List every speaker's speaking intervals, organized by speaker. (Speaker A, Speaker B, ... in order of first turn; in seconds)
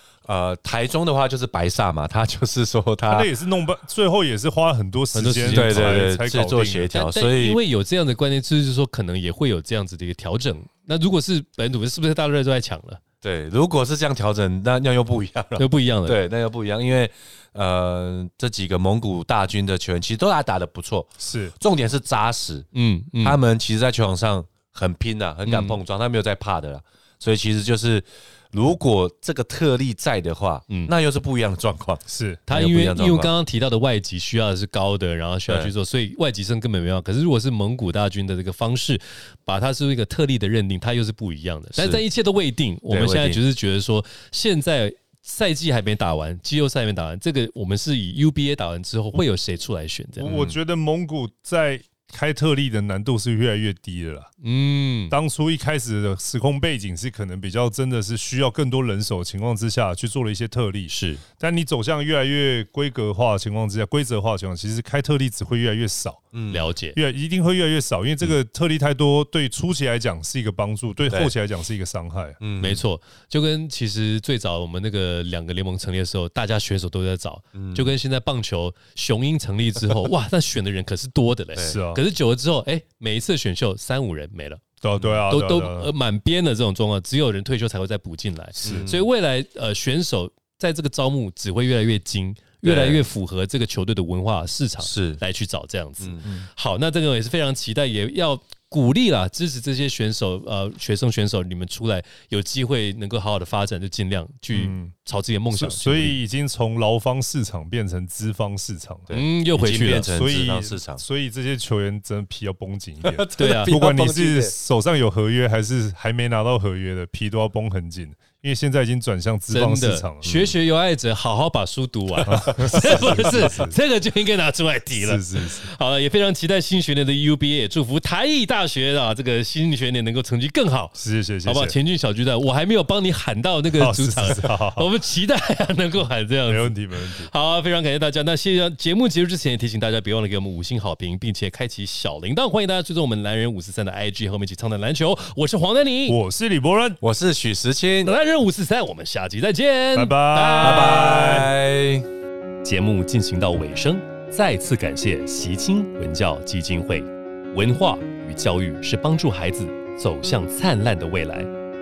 Speaker A: 0.2-3.3, 5.5-7.6, 13.2-22.7, 23.2-33.3, 35.5-35.7, 41.8-42.0, 42.9-43.4, 50.2-50.6, 66.3-66.7, 72.4-72.8, 77.5-77.9, 88.6-89.0, 92.6-93.0, 94.8-95.2, 96.0-96.3, 109.1-111.0, 113.0-114.5, 120.2-120.6, 147.0-148.1, 150.6-152.1
Speaker B: 3.1-6.9, 21.2-21.6, 32.1-32.4, 50.2-54.3, 55.1-66.2, 66.9-72.4, 81.6-82.0, 84.8-85.9, 88.5-88.9, 104.5-104.9, 105.5-109.2, 110.1-120.3, 122.3-123.8, 125.0-125.7, 131.0-131.8, 133.8-134.9, 136.5-137.3, 146.1-147.0, 149.9-151.5
Speaker C: 5.1-6.1, 6.9-13.0, 15.6-16.2, 22.7-23.4, 25.5-25.8, 32.5-50.3, 54.4-55.2, 60.9-61.2, 66.5-67.0, 72.6-84.6, 85.3-106.2, 109.1-110.2, 113.4-113.7, 119.5-146.2, 148.0-151.1, 152.6-161.5